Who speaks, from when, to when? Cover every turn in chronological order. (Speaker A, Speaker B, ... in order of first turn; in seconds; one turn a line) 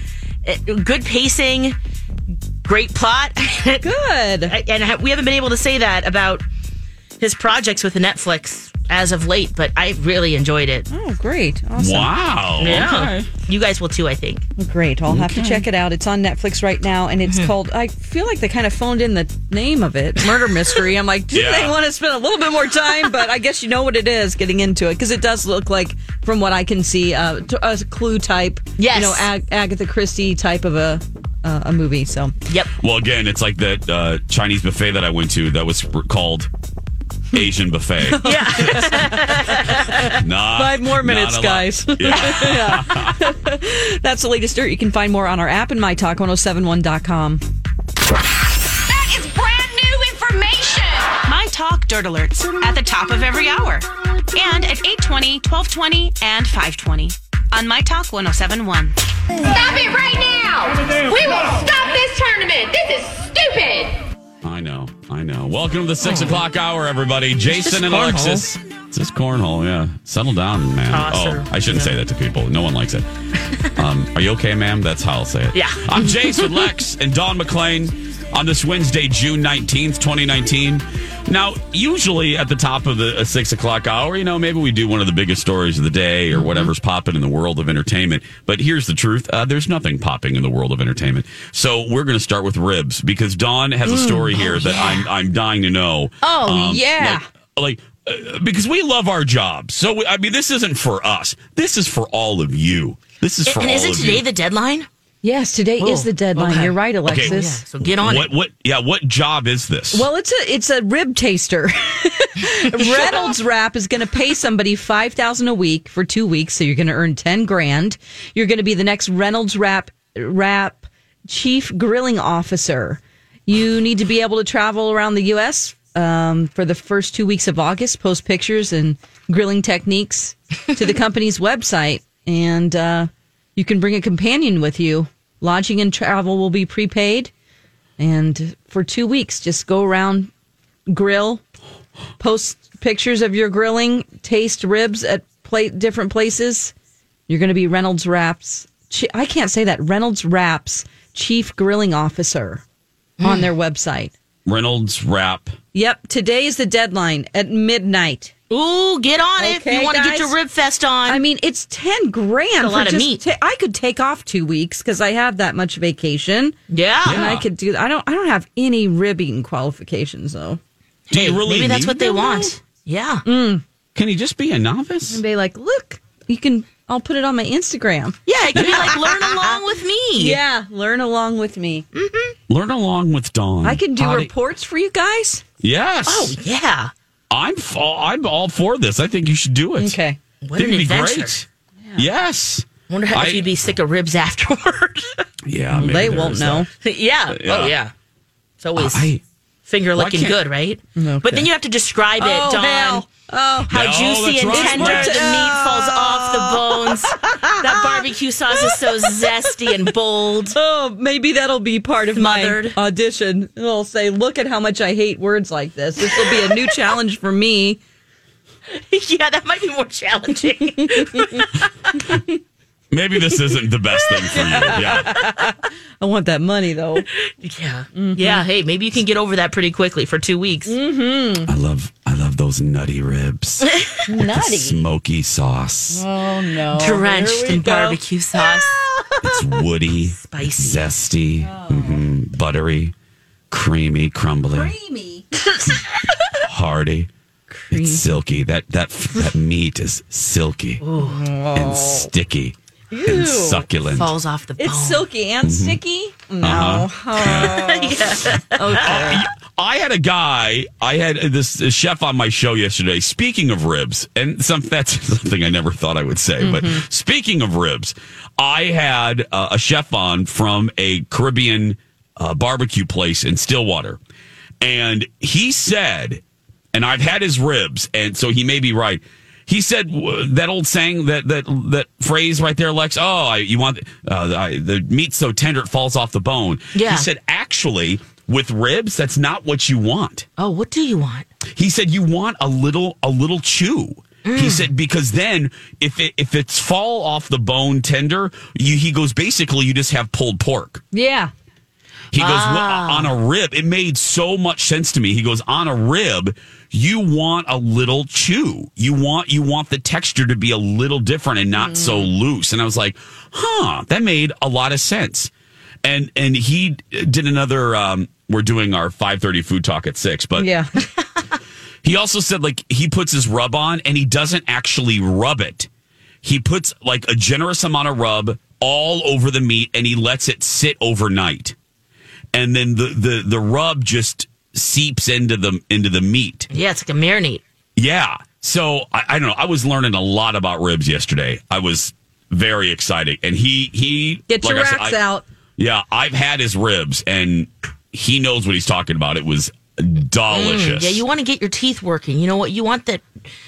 Speaker A: 0.4-1.8
Speaker A: 2.6-3.9
Speaker B: 3.8-4.5
Speaker A: 4.5-6.4
Speaker A: 7.2-10.9
Speaker B: 10.9-12.1
Speaker C: 11.8-13.3
Speaker A: 12.6-14.4
Speaker B: 14.6-32.3
Speaker C: 15.1-15.7
Speaker A: 17.2-17.5
Speaker A: 20.2-20.6
Speaker C: 21.3-21.8
Speaker A: 28.8-29.3
Speaker C: 32.8-36.5
Speaker C: 37.3-38.4
Speaker B: 38.0-47.4
Speaker A: 38.2-40.2
Speaker C: 40.0-43.2
Speaker A: 42.1-42.5
Speaker D: 48.9-51.2
Speaker E: 51.2-59.0
Speaker D: 59.4-64.0
Speaker C: 64.4-73.0
Speaker A: 66.0-66.4
Speaker A: 67.5-68.5
Speaker A: 70.9-71.9
Speaker C: 73.7-104.2
Speaker A: 75.5-76.7
Speaker B: 93.8-94.8
Speaker A: 94.4-95.0
Speaker B: 96.2-97.2
Speaker A: 103.5-104.9
Speaker B: 105.2-107.6
Speaker A: 105.8-108.3
Speaker C: 107.0-110.1
Speaker B: 109.9-137.3
Speaker A: 112.9-113.3
Speaker B: 138.0-140.3
Speaker B: 140.9-141.4
Speaker B: 142.2-146.7
Speaker B: 147.3-152.6
Speaker A: 153.2-153.5
Speaker B: 153.2-154.1
Speaker C: 154.4-155.6
Speaker B: 155.7-158.3
Speaker A: 158.5-161.2
Speaker B: 159.4-160.3
Speaker B: 161.1-166.5
Speaker A: 162.6-163.2
Speaker A: 166.7-167.3
Speaker C: 167.0-167.4
Speaker B: 167.1-170.6
Speaker A: 171.1-173.2
Speaker C: 171.1-172.5
Speaker B: 173.2-173.6
Speaker C: 173.9-175.2
Speaker B: 175.1-179.4
Speaker A: 178.3-180.4
Speaker B: 180.2-181.8
Speaker A: 181.9-182.3
Speaker C: 182.5-184.3
Speaker B: 183.6-185.4
Speaker C: 185.6-186.3
Speaker A: 186.1-186.9
Speaker C: 187.3-190.0
Speaker B: 189.8-190.2
Speaker A: 190.4-191.3
Speaker C: 190.6-193.5
Speaker A: 192.9-195.2
Speaker C: 195.4-196.7
Speaker B: 195.7-196.7
Speaker A: 196.8-197.9
Speaker C: 197.3-197.7
Speaker A: 198.6-199.1
Speaker C: 198.8-199.2
Speaker A: 199.7-203.0
Speaker C: 199.9-200.4
Speaker B: 201.0-201.5
Speaker B: 202.2-203.7
Speaker A: 203.7-210.6
Speaker C: 203.7-205.4
Speaker B: 204.4-209.3
Speaker B: 210.5-217.8
Speaker A: 212.1-212.8
Speaker A: 218.7-221.6
Speaker B: 222.0-222.2
Speaker C: 222.9-225.2
Speaker A: 224.2-224.6
Speaker B: 224.3-227.1
Speaker A: 227.2-230.7
Speaker B: 227.9-228.4
Speaker B: 230.7-231.5
Speaker C: 231.4-236.1
Speaker A: 233.7-234.0
Speaker B: 234.1-234.8
Speaker B: 235.9-239.1
Speaker A: 236.7-238.7
Speaker C: 239.2-242.9
Speaker A: 240.2-240.9
Speaker B: 241.4-242.0
Speaker C: 243.5-244.7
Speaker B: 244.5-245.2
Speaker A: 245.4-246.0
Speaker C: 246.4-247.1
Speaker B: 247.5-248.0
Speaker C: 247.7-250.8
Speaker A: 250.8-251.2
Speaker B: 251.0-252.1
Speaker C: 251.5-254.1
Speaker B: 252.9-253.6
Speaker A: 253.8-255.1
Speaker B: 254.6-258.0
Speaker C: 255.4-255.8
Speaker C: 256.4-257.7
Speaker A: 257.2-259.1
Speaker B: 258.5-259.2
Speaker C: 258.7-274.0
Speaker B: 266.4-266.8
Speaker C: 274.6-276.2
Speaker C: 276.7-290.3
Speaker A: 286.7-287.1
Speaker A: 290.4-291.3
Speaker C: 291.5-300.8
Speaker A: 294.2-294.7
Speaker B: 300.9-301.3
Speaker C: 302.1-315.3
Speaker A: 302.1-303.1
Speaker B: 311.6-312.1
Speaker C: 315.8-320.5
Speaker B: 320.4-320.7
Speaker C: 321.8-325.7
Speaker C: 326.2-331.6
Speaker C: 332.3-336.5
Speaker A: 336.5-337.4
Speaker C: 337.8-345.0
Speaker B: 344.3-345.2
Speaker C: 345.6-351.0
Speaker A: 350.3-353.1